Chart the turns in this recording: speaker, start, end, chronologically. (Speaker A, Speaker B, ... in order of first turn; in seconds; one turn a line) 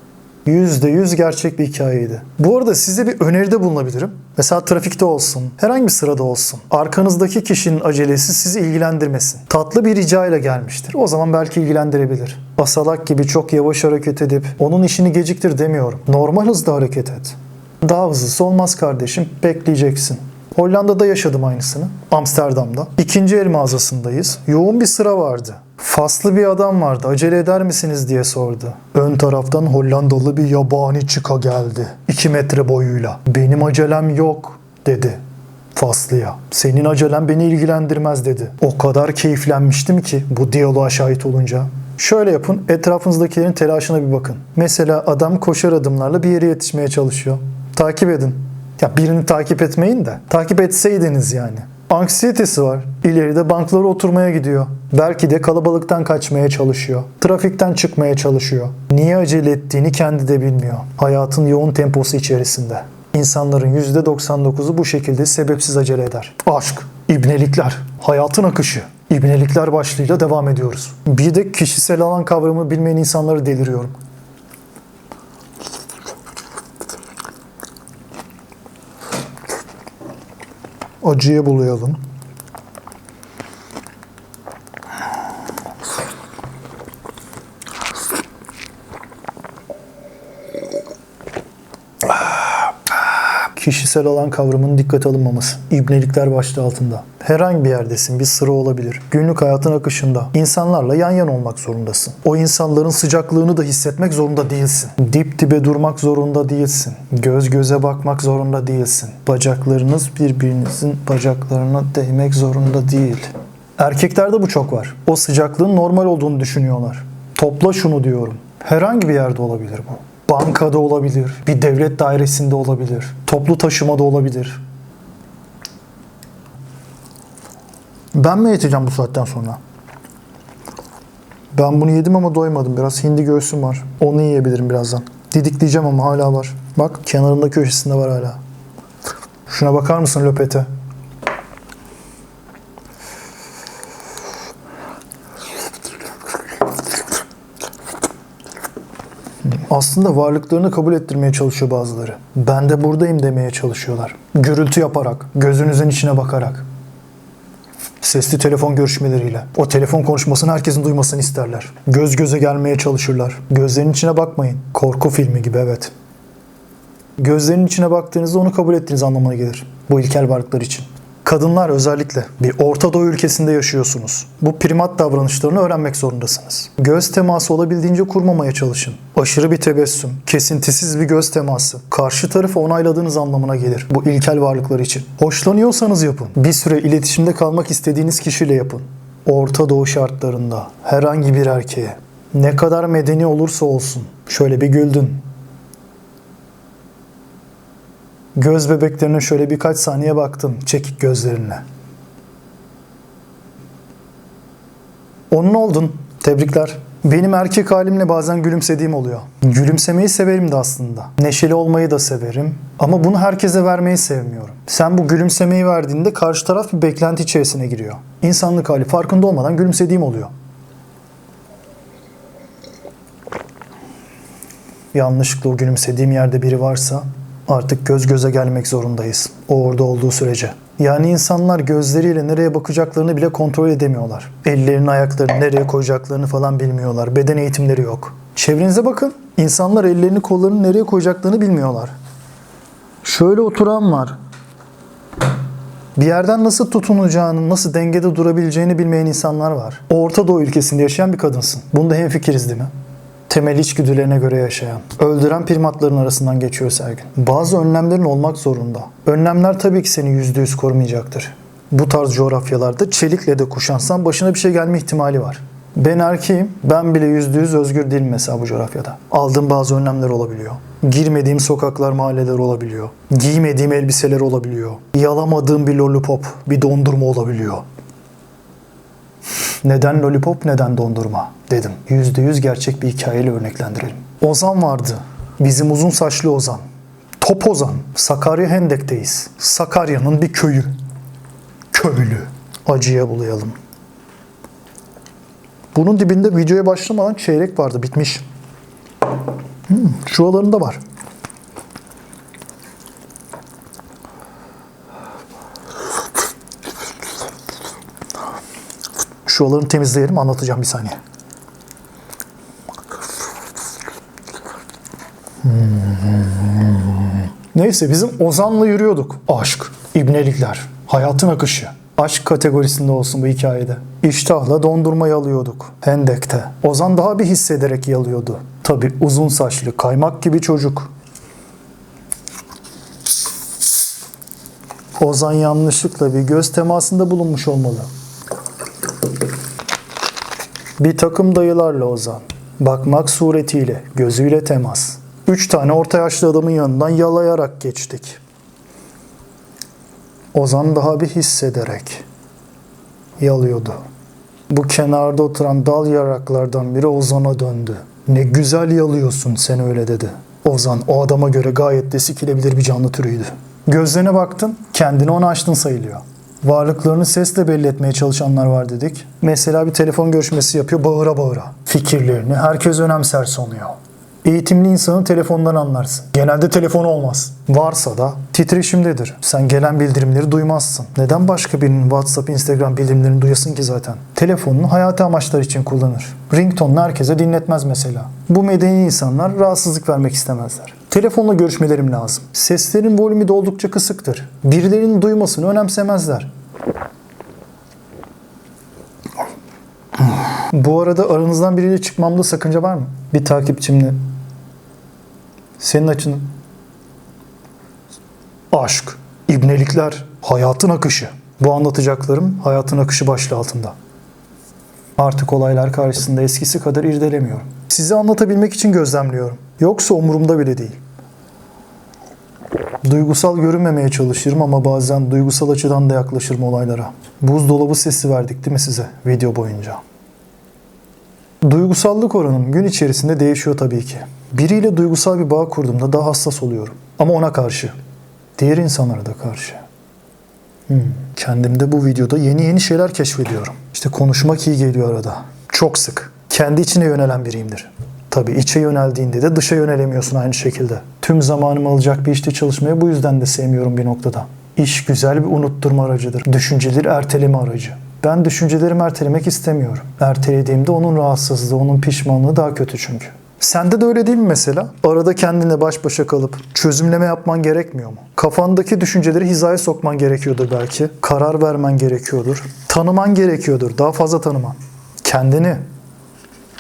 Speaker A: 0.5-35.2
Speaker A: 35.7-74.0
Speaker A: 81.0-82.0
Speaker A: 93.5-124.6
Speaker A: 128.1-129.6
Speaker A: 131.5-138.4
Speaker A: 139.5-140.7
Speaker A: 149.7-156.7
Speaker A: 158.0-165.9
Speaker A: 167.2-195.2
Speaker A: 198.3-201.6
Speaker A: 205.3-220.3
Speaker A: 224.9-241.9
Speaker A: 243.0-244.2
Speaker A: 246.0-252.7
Speaker A: 253.3-277.6
Speaker A: 279.6-286.6
Speaker A: 287.2-290.7
Speaker A: 291.7-293.6
Speaker A: 295.7-298.2
Speaker A: 299.7-300.8
Speaker A: 309.3-311.0
Speaker A: 315.4-330.9
Speaker A: 335.0-337.9
Speaker A: 340.8-348.2
Speaker A: 350.3-352.1
Speaker A: 353.2-353.8
Speaker A: 354.5-396.3
Speaker A: 400.5-404.0
Speaker A: 405.6-406.3
Speaker A: 408.5-413.8
Speaker A: 415.0-420.8
Speaker A: 422.9-429.8
Speaker A: 431.4-437.8
Speaker A: 438.4-439.6
Speaker A: 440.7-475.6